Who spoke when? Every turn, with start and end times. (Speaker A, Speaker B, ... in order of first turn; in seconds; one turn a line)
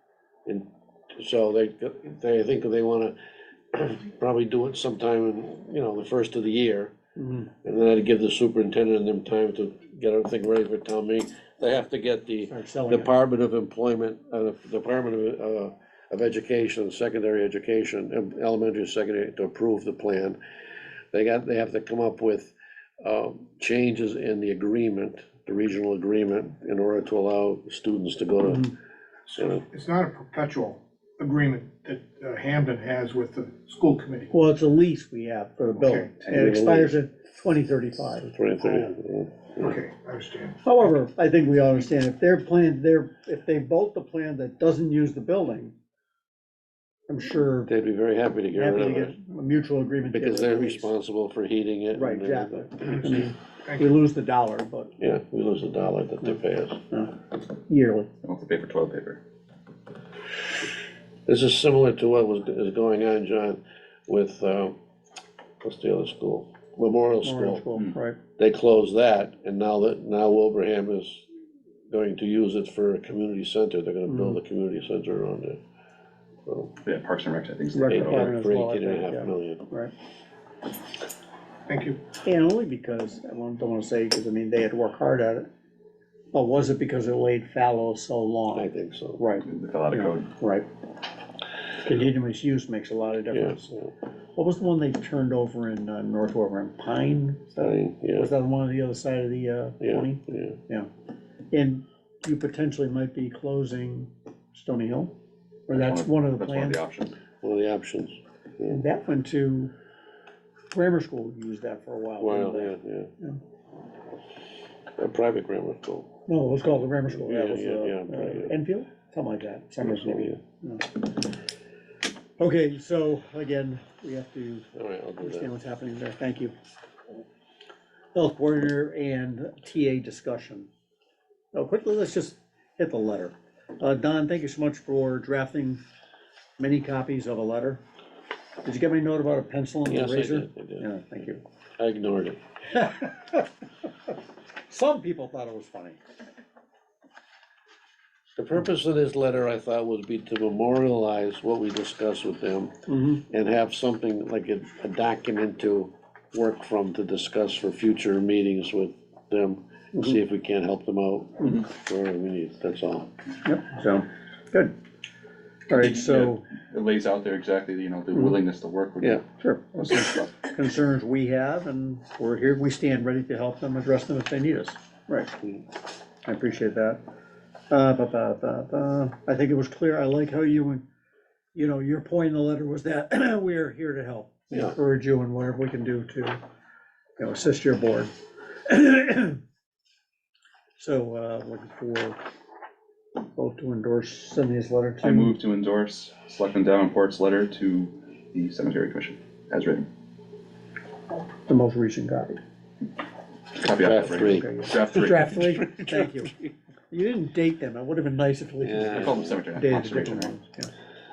Speaker A: 0.5-3.1
Speaker A: 3.7-6.9
Speaker B: 7.2-7.5
Speaker A: 7.6-20.4
Speaker B: 12.5-13.1
Speaker A: 21.1-28.7
Speaker B: 28.4-28.7
Speaker C: 29.3-34.4
Speaker B: 34.3-38.3
Speaker C: 35.8-36.3
Speaker A: 36.3-37.0
Speaker A: 38.2-39.8
Speaker C: 38.6-38.9
Speaker C: 39.6-40.6
Speaker B: 40.6-45.7
Speaker B: 47.1-47.7
Speaker A: 47.7-49.2
Speaker B: 48.5-50.9
Speaker A: 50.1-53.2
Speaker B: 51.9-54.9
Speaker C: 52.9-53.9
Speaker A: 55.0-56.8
Speaker B: 56.9-58.1
Speaker D: 58.2-59.2
Speaker A: 61.3-64.8
Speaker A: 65.6-67.6
Speaker B: 67.2-68.2
Speaker A: 68.4-71.2
Speaker A: 71.9-75.6
Speaker B: 74.1-74.4
Speaker A: 76.5-76.7
Speaker D: 76.8-78.3
Speaker B: 77.7-79.9
Speaker A: 77.9-79.7
Speaker C: 81.7-82.0
Speaker B: 82.2-85.5
Speaker B: 86.3-90.7
Speaker A: 88.5-89.2
Speaker D: 89.5-90.3
Speaker B: 91.8-93.8
Speaker A: 93.3-93.9
Speaker B: 94.4-100.9
Speaker A: 97.6-98.3
Speaker A: 99.8-100.6
Speaker B: 101.5-105.1
Speaker B: 105.7-106.8
Speaker D: 105.7-107.1
Speaker A: 107.4-108.8
Speaker B: 108.7-109.7
Speaker B: 110.7-113.4
Speaker A: 112.2-113.1
Speaker A: 115.0-116.2
Speaker B: 116.3-121.1
Speaker A: 117.0-118.5
Speaker A: 119.9-120.4
Speaker B: 122.4-124.7
Speaker A: 124.8-125.5
Speaker B: 125.2-126.5
Speaker B: 128.1-130.7
Speaker B: 131.5-135.8
Speaker B: 136.6-137.8
Speaker B: 138.6-141.4
Speaker A: 139.9-142.4
Speaker B: 142.7-143.5
Speaker B: 144.7-146.0
Speaker A: 148.4-152.8
Speaker B: 152.9-153.2
Speaker A: 153.3-163.1
Speaker B: 163.4-164.7
Speaker B: 165.7-166.4
Speaker D: 165.8-169.2
Speaker B: 169.0-175.3
Speaker B: 176.3-177.0
Speaker B: 177.7-180.8
Speaker B: 181.6-186.4
Speaker B: 187.2-188.1
Speaker B: 188.7-189.4
Speaker B: 190.8-192.2
Speaker B: 193.4-195.4
Speaker D: 195.0-199.9
Speaker B: 201.5-202.4
Speaker D: 203.5-205.3
Speaker A: 203.8-206.5
Speaker B: 204.2-206.3
Speaker B: 206.9-210.7
Speaker A: 208.6-209.4
Speaker D: 208.9-210.3